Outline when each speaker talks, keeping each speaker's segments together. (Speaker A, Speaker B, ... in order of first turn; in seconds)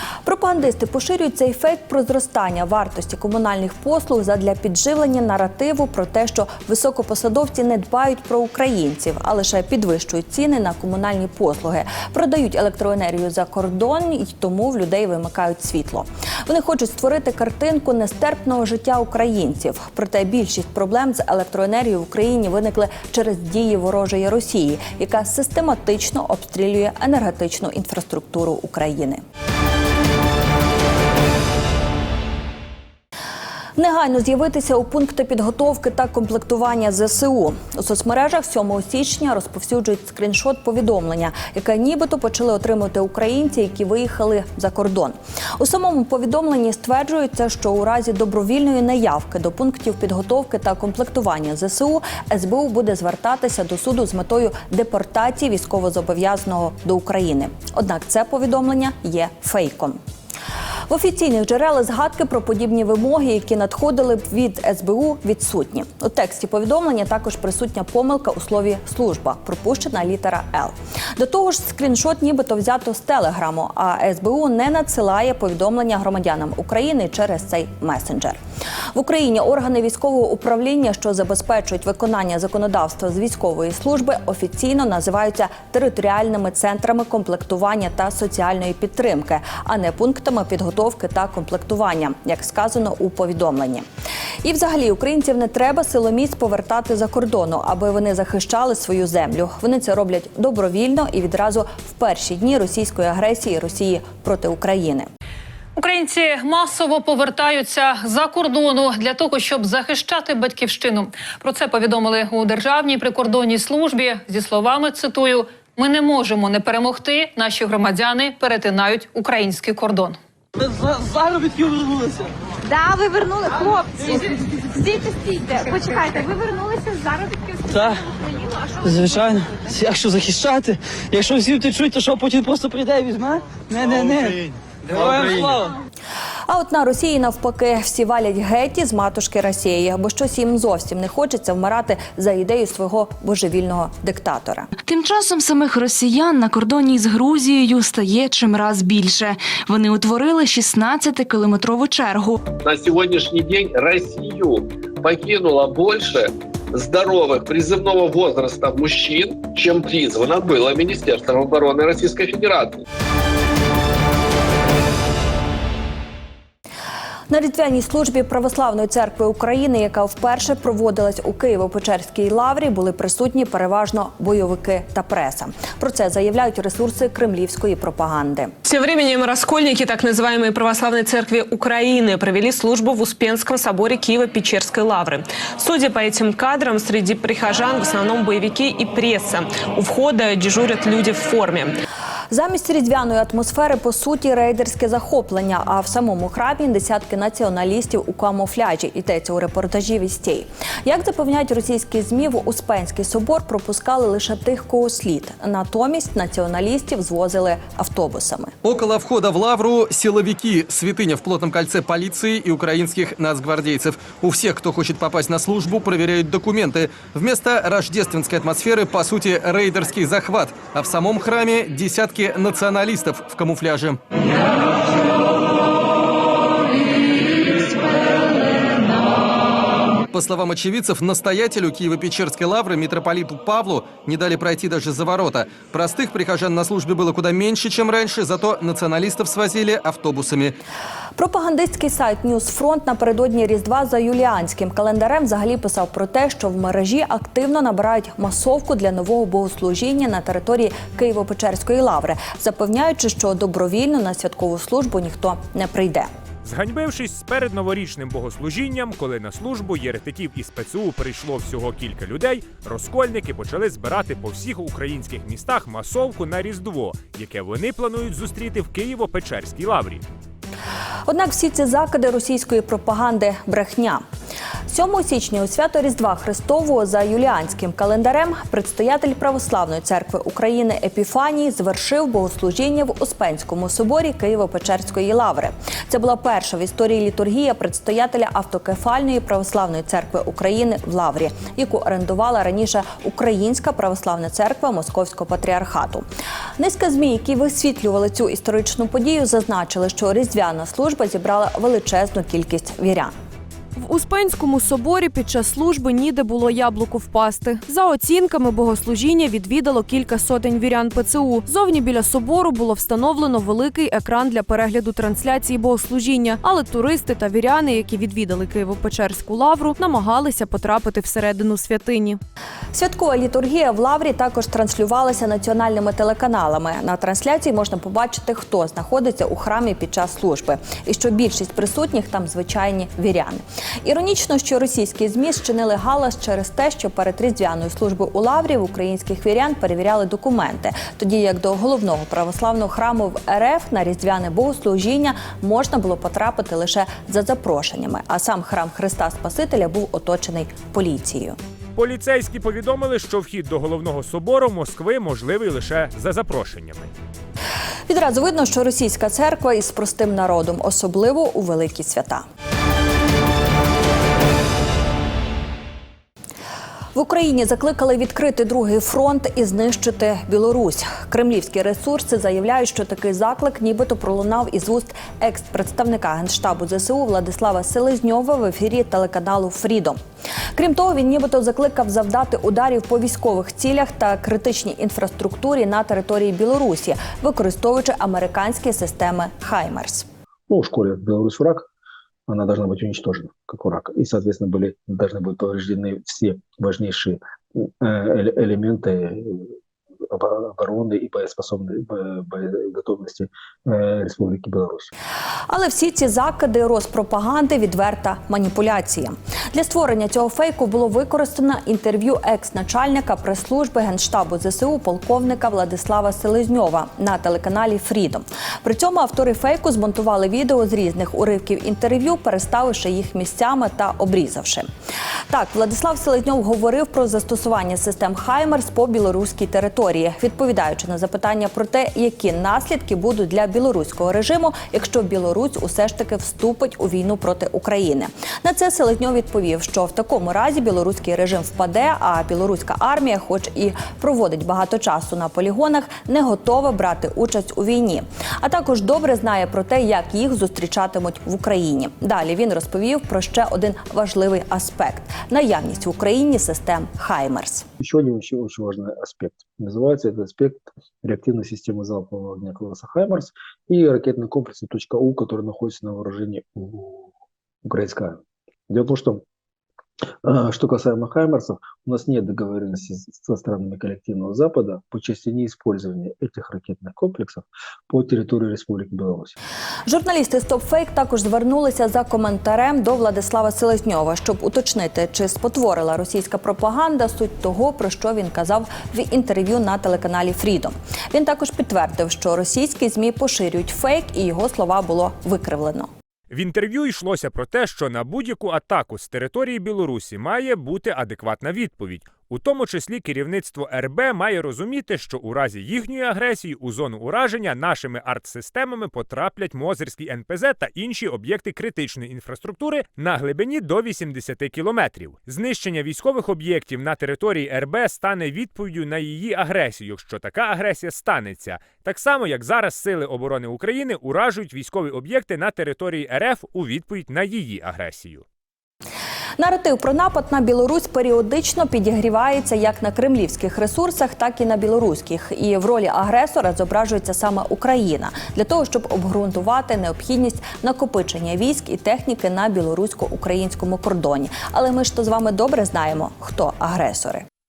Speaker A: 0.2-29.2, 33.8-60.0, 60.9-78.4, 79.0-93.8, 94.4-105.1, 136.5-144.7, 167.3-178.5, 192.3-208.5, 241.2-256.1, 271.1-274.0, 274.7-296.1, 296.6-303.1, 322.7-351.4, 357.9-362.2, 366.9-380.0, 380.6-390.1, 405.5-424.7, 425.3-457.7, 479.9-495.9, 529.4-547.2
Speaker B: 105.8-120.2
Speaker C: 120.8-122.1, 127.7-128.0, 128.8-135.7
Speaker D: 122.7-127.8
Speaker E: 144.8-152.4
Speaker F: 152.7-162.8
Speaker G: 178.7-191.8
Speaker H: 208.7-224.0, 230.1-240.6
Speaker I: 256.4-270.0, 351.8-356.9, 496.3-528.2
Speaker J: 303.8-322.2
Speaker K: 390.5-391.7, 392.3-399.5, 400.1-404.9, 457.8-467.1, 467.6-468.2, 468.7-469.2, 470.2-479.3